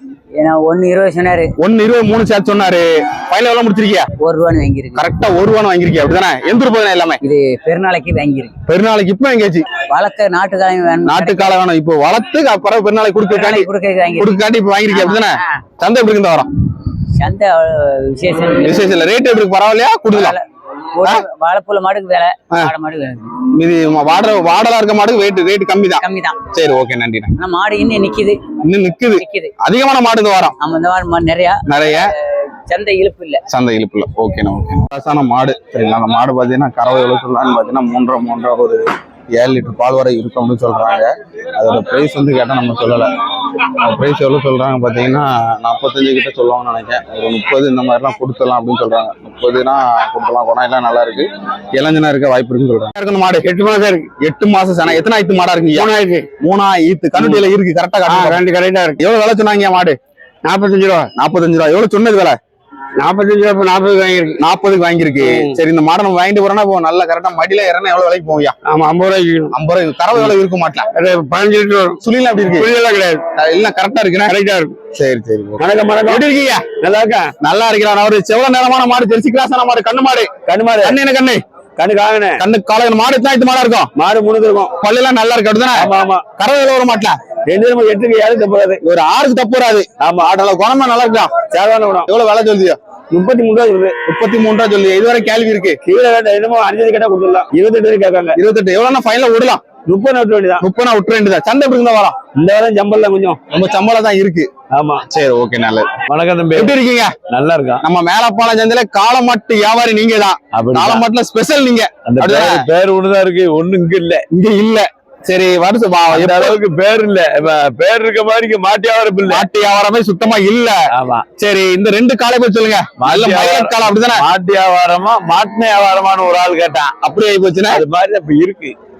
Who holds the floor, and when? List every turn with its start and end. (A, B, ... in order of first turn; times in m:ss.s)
0:00.4-0:01.5 A
0:01.6-0:04.1 B
0:04.2-0:05.0 A
0:05.0-0:07.2 B
0:07.2-0:08.5 A
0:08.7-0:09.6 B
0:09.9-0:11.6 A
0:11.0-0:16.5 B
0:13.3-0:14.4 A
0:14.9-0:15.6 A
0:17.2-0:18.9 A
0:18.6-0:20.4 B
0:20.1-0:20.4 A
0:20.9-0:23.2 A
0:23.5-0:27.3 B
0:26.0-0:26.4 A
0:27.4-0:28.4 A
0:28.6-0:30.6 B
0:29.2-0:29.5 A
0:30.6-0:33.4 A
0:31.6-0:32.1 B
0:33.5-0:53.5 B
0:53.4-0:54.1 C
0:54.2-0:58.4 B
0:55.7-0:56.2 C
0:57.2-0:57.4 C
0:58.1-0:59.0 C
0:59.0-1:00.0 B
1:00.4-1:01.1 C
1:01.1-1:02.4 B
1:03.0-1:04.4 C
1:04.4-1:08.6 B
1:05.2-1:05.6 C
1:08.6-1:09.5 C
1:09.5-1:10.9 B
1:10.9-1:12.0 C
1:12.0-1:12.7 B
1:12.6-1:13.2 C
1:13.4-1:14.3 B
1:14.3-1:14.8 C
1:14.9-1:16.7 B
1:15.6-1:17.3 C
1:17.4-1:21.4 B
1:20.5-1:21.0 C
1:21.8-1:22.4 C
1:22.4-1:23.9 B
1:24.0-1:24.7 C
1:24.8-1:27.2 B
1:25.8-1:26.2 C
1:27.4-1:28.8 C
1:28.8-1:31.3 B
1:30.0-1:30.3 C
1:31.5-1:32.1 C
1:32.1-1:32.8 B
1:33.1-1:34.0 C
1:34.0-1:35.8 B
1:35.8-1:38.4 C
1:38.4-1:39.6 B
1:39.8-1:40.6 C
1:40.6-1:42.2 B
1:42.3-1:43.4 C
1:43.5-1:44.5 B
1:44.7-1:45.0 C
1:45.1-1:45.9 B
1:46.1-1:46.7 C
1:46.5-1:47.2 B
1:47.3-1:47.8 C
1:47.8-1:52.6 B
1:50.5-1:51.0 C
1:52.0-1:54.2 C
1:54.3-1:56.6 B
1:56.1-1:59.4 C
1:59.3-2:00.8 B
2:00.9-2:01.2 C
2:01.4-2:04.2 B
2:03.0-2:06.9 C
2:07.0-2:07.8 B
2:07.7-2:08.7 C